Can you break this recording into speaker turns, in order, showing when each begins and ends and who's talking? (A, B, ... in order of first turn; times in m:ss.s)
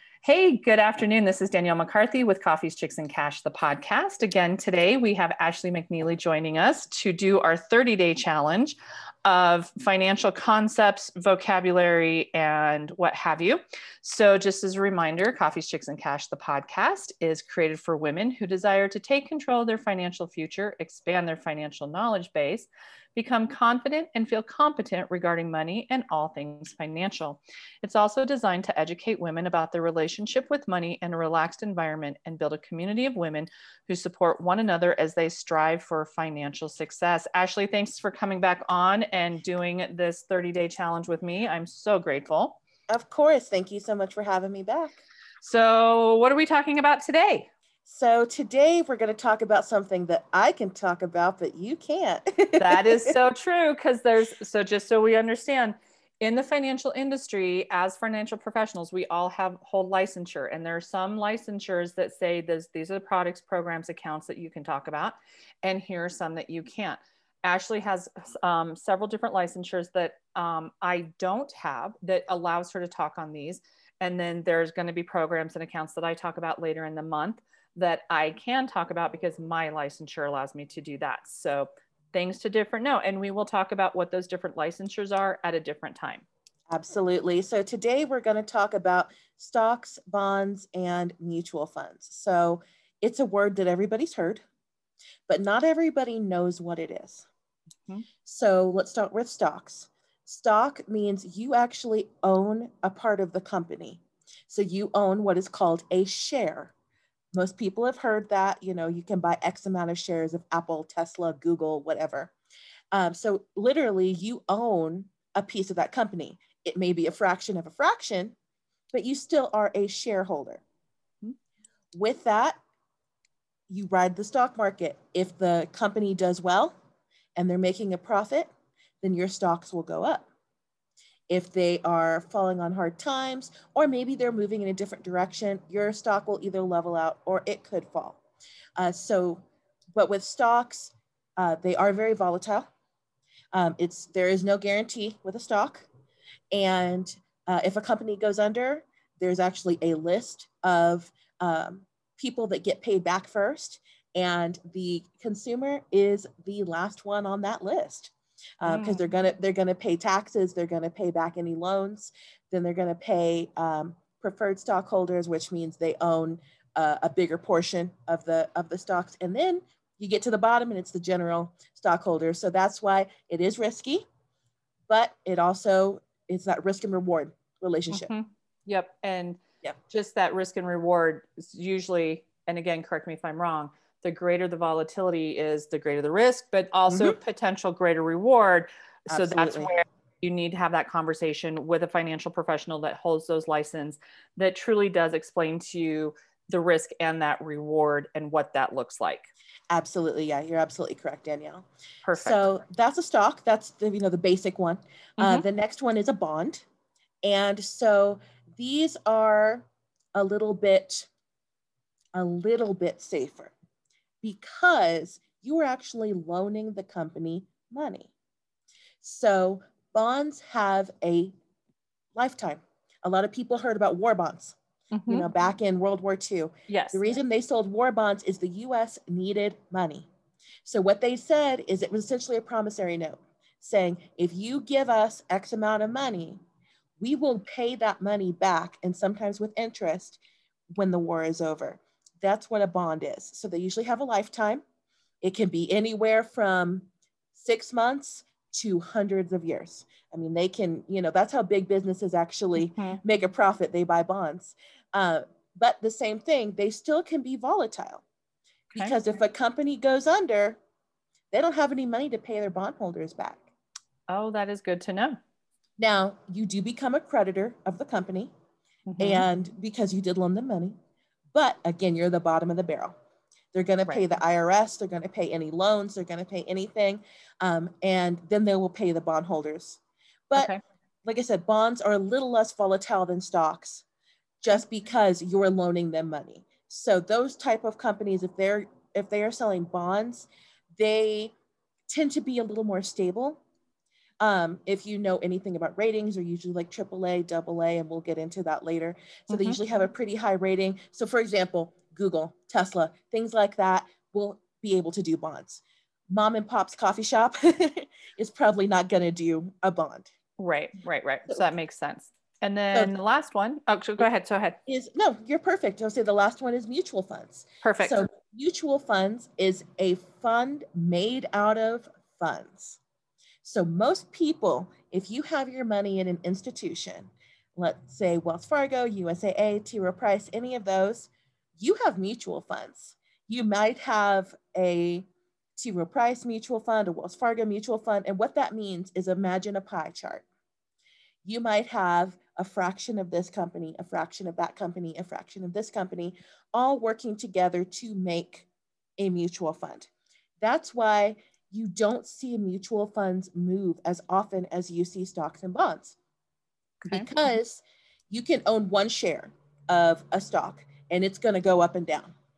0:00.2-0:42.6 A
0:42.9-0:45.0 B
0:45.4-0:47.5 A
0:47.9-0:53.1 B
0:52.6-1:26.2 A
1:26.7-1:34.4 B
1:35.3-1:37.3 B
1:38.2-1:46.7 B
1:47.3-1:52.3 B
1:52.9-1:58.4 B
1:58.9-2:00.6 B
2:01.9-2:02.6 B
2:03.7-2:06.7 B
2:07.4-2:08.5 B
2:09.0-2:10.3 B
2:11.3-2:18.2 B
2:18.8-2:22.7 B
2:23.5-2:25.9 B
2:26.5-2:54.1 B
2:38.6-2:39.1 A
2:54.9-2:58.1 B
2:57.9-3:19.3 A
3:06.9-3:07.2 B
3:09.1-3:09.7 B
3:19.7-3:26.6 B
3:22.0-3:22.5 A
3:25.2-3:25.4 A
3:27.2-3:31.1 B
3:32.2-3:33.5 B
3:34.2-3:38.1 B
3:39.0-3:41.3 B
3:42.2-3:44.6 B
3:44.9-3:45.3 A
3:45.1-3:50.1 B
3:46.7-3:47.1 A
3:50.6-3:56.4 B
3:57.0-4:00.2 B
4:00.7-4:04.6 B
4:05.2-4:18.0 B
4:12.6-4:13.0 A
4:18.8-4:20.6 B
4:21.3-4:23.5 B
4:24.1-4:25.2 A
4:25.8-4:28.3 B
4:28.9-4:29.3 A
4:29.0-4:30.8 B
4:31.3-4:32.9 B
4:33.5-4:40.5 B
4:41.0-4:43.8 B
4:44.4-4:51.3 B
4:51.9-4:53.4 B
4:54.2-5:10.1 B
4:59.3-4:59.6 A
5:10.4-5:14.6 A
5:14.7-5:22.8 B
5:17.6-5:18.1 A
5:23.4-5:35.1 B
5:35.6-5:40.2 B
5:41.2-5:48.5 B
5:49.0-5:56.0 B
5:56.8-5:57.3 A
5:56.9-6:02.1 B